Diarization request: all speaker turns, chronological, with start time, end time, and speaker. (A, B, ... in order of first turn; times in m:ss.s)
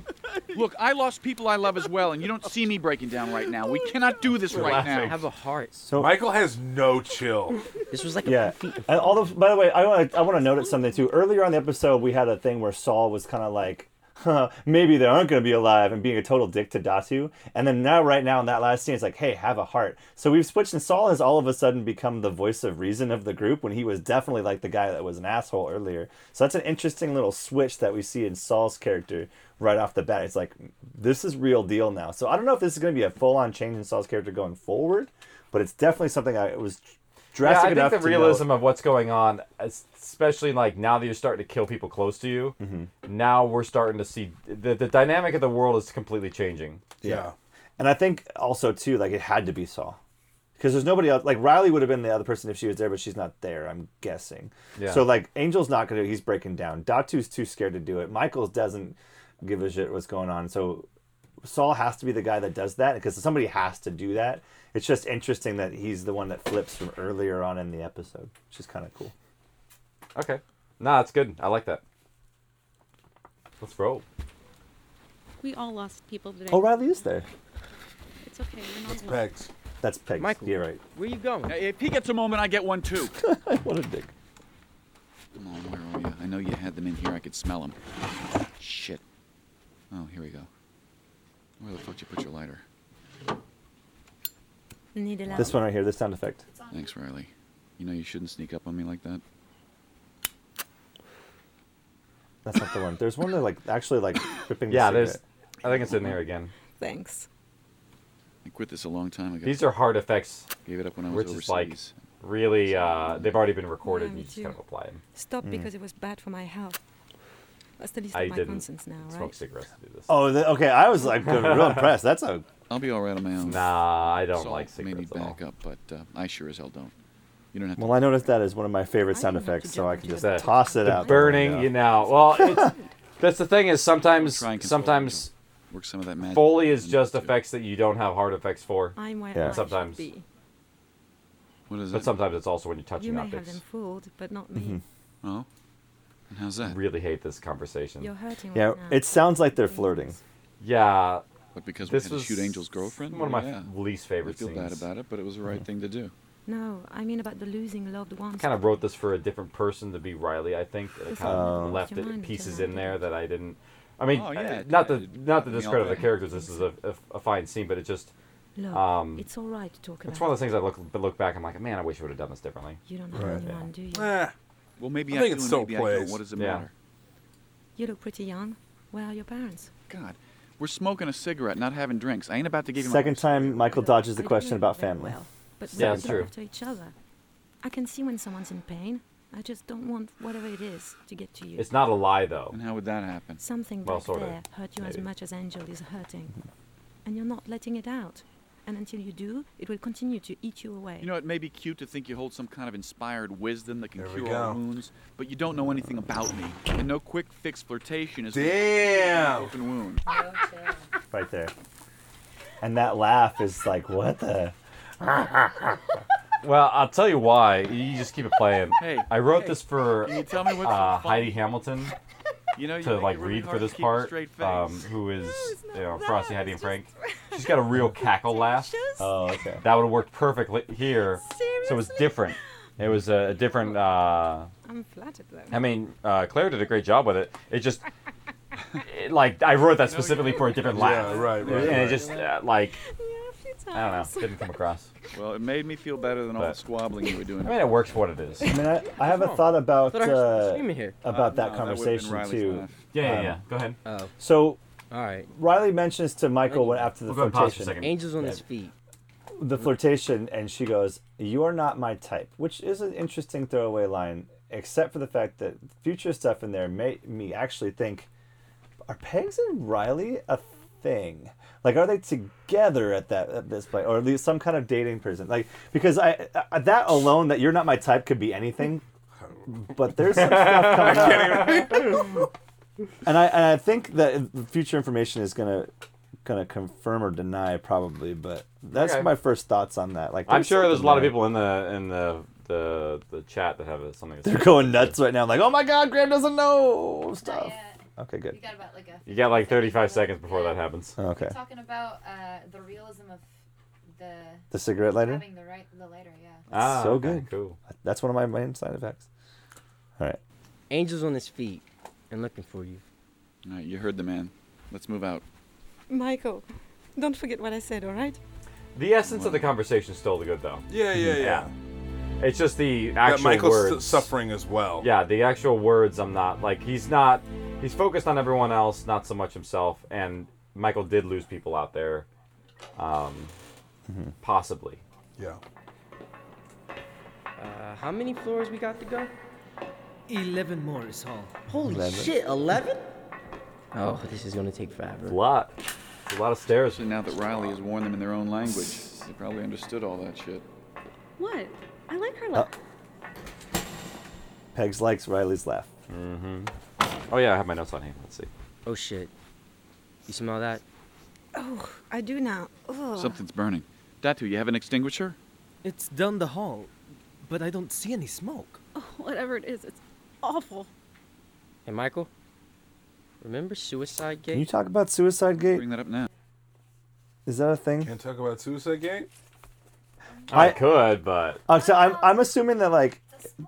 0:00.5-0:05.2 A
0:04.5-0:05.1 B
0:04.6-0:05.8 C
0:05.8-0:06.2 D
0:05.9-0:07.6 E
0:07.9-0:09.2 C
0:08.2-0:38.5 D
0:37.4-0:46.8 B
0:42.6-0:42.9 D
0:47.0-0:47.3 E
0:47.8-0:50.0 D
0:50.6-1:00.9 D
0:54.8-0:55.0 B
1:01.4-1:09.1 D
1:10.1-1:11.8 B
1:13.6-1:14.0 B
1:15.4-1:17.0 F
1:16.5-1:17.3 D
1:18.2-1:19.3 F
1:18.9-1:19.5 E
1:19.8-1:20.8 D
1:20.2-1:21.6 C
1:21.4-1:23.2 A
1:23.2-1:24.1 D
1:25.3-1:27.8 A
1:28.6-1:29.0 A
1:29.9-1:30.5 A
1:31.6-1:32.6 A
1:34.9-1:35.6 G
1:35.4-1:36.4 D
1:36.7-1:39.2 A
1:42.4-1:45.2 D
1:44.7-1:46.5 B
1:46.8-1:47.3 G
1:48.4-1:49.8 A
1:49.4-1:50.5 B
1:50.6-1:51.9 A
1:51.1-1:55.0 B
1:52.8-1:53.2 A
1:53.8-1:54.6 G
1:55.1-1:56.8 G
1:55.4-1:55.7 D
1:57.8-1:59.4 G
1:58.1-2:00.2 B
2:00.1-2:02.5 D
2:01.3-2:01.8 B
2:02.7-2:06.9 A
2:03.4-2:05.4 B
2:07.5-2:08.3 A
2:07.8-2:11.8 D
2:09.1-2:12.8 G
2:10.2-2:15.3 B
2:12.3-2:12.7 D
2:14.1-2:17.4 A
2:16.2-2:20.0 B
2:19.0-2:20.2 G
2:19.3-2:19.6 D
2:21.7-2:22.1 A
2:21.9-2:23.6 B
2:23.0-2:24.8 G
2:24.5-2:24.8 D
2:25.2-2:25.5 A
2:26.3-2:26.8 A
2:26.6-2:28.1 B
2:28.0-2:30.2 G
2:28.5-2:30.2 D
2:30.6-2:31.2 B
2:31.5-2:33.7 A
2:31.9-2:34.8 B
2:34.2-2:36.1 A
2:36.4-2:38.6 G
2:38.4-2:48.1 B
2:41.1-2:43.1 G
2:41.2-2:41.8 D
2:44.1-2:46.2 A
2:46.1-2:46.6 G
2:48.6-2:50.4 G
2:48.7-2:49.3 B
2:50.0-2:53.6 B
2:52.8-2:54.2 G
2:53.1-2:54.3 E
2:54.8-2:56.7 A
2:55.1-2:56.2 E
2:56.4-2:56.7 B
2:57.8-2:59.7 G
2:59.9-3:03.7 A
3:02.8-3:05.2 D
3:03.6-3:06.9 G
3:05.7-3:06.2 D
3:05.7-3:06.3 B
3:07.6-3:11.7 G
3:11.6-3:12.6 B
3:12.5-3:13.4 A
3:13.4-3:16.3 G
3:13.8-3:15.0 B
3:17.0-3:21.1 G
3:21.0-3:30.0 A
3:24.0-3:24.6 E
3:28.3-3:29.5 E
3:30.1-3:30.8 H
3:31.1-3:31.5 D
3:32.6-3:35.8 D
3:36.4-3:41.9 B
3:38.8-3:41.4 A
3:42.5-3:44.9 A
3:42.8-3:48.8 B
3:45.2-3:49.2 G
3:49.0-3:49.6 D
3:49.6-3:54.5 B
3:51.1-3:52.4 G
3:53.5-3:55.6 G
3:55.5-3:57.8 B
3:58.8-4:02.8 B
3:59.8-4:01.9 A
4:00.7-4:02.1 E
4:01.5-4:02.2 C
4:02.1-4:04.7 G
4:03.7-4:04.9 B
4:05.1-4:07.8 A
4:07.4-4:08.5 B
4:08.4-4:13.4 D
4:09.0-4:11.0 C
4:11.1-4:12.8 A
4:12.9-4:13.8 B
4:13.8-4:14.1 C
4:14.2-4:14.6 D
4:14.9-4:15.3 C
4:15.3-4:18.4 D
4:16.5-4:16.9 C
4:17.1-4:18.0 B
4:17.7-4:18.7 C
4:19.4-4:28.1 D
4:28.9-4:38.8 D
4:39.5-4:42.3 D
4:40.1-4:41.6 B
4:40.6-4:42.0 E
4:43.0-4:45.7 D
4:46.2-4:51.2 D
4:48.7-4:49.1 B
4:50.2-4:54.9 B
4:54.2-4:58.4 D
4:57.2-4:57.8 H
4:58.3-5:00.6 H
4:59.0-5:01.0 B
5:01.0-5:01.4 D
5:01.2-5:03.2 H
5:03.9-5:04.4 H
5:04.5-5:05.2 D
5:05.0-5:06.4 H
5:06.5-5:07.6 B
5:06.5-5:09.0 D
5:10.7-5:12.8 C
5:13.4-5:15.2 A
5:15.9-5:16.4 G
5:17.0-5:18.2 G
5:18.7-5:20.6 B
5:19.0-5:19.5 A
5:20.7-5:21.5 E
5:21.2-5:21.5 B
5:22.2-5:24.1 B
5:23.0-5:24.9 E
5:24.8-5:32.1 B
5:32.8-5:33.3 B
5:33.9-5:34.1 D
5:34.2-5:34.8 B
5:37.4-5:39.1 C
5:40.1-5:41.4 I
5:41.5-5:42.8 C
5:41.6-5:42.1 D
5:43.7-5:45.2 C
5:45.0-5:45.5 B
5:46.1-5:46.8 B
5:46.7-5:50.4 A
5:51.2-5:52.5 F
5:54.5-5:55.7 D
5:55.9-5:56.5 B
5:57.1-5:58.3 B
5:58.6-5:59.1 C
6:00.0-6:00.6 C
6:01.3-6:03.2 G
6:02.9-6:05.2 A
6:05.6-6:06.7 I
6:07.2-6:08.6 I
6:08.7-6:10.7 F
6:11.6-6:12.1 C
6:13.2-6:14.5 C
6:14.3-6:15.6 D
6:15.4-6:16.1 A
6:17.2-6:17.9 D
6:17.8-6:19.1 E
6:20.3-6:21.4 B
6:20.3-6:20.7 D
6:21.5-6:23.0 D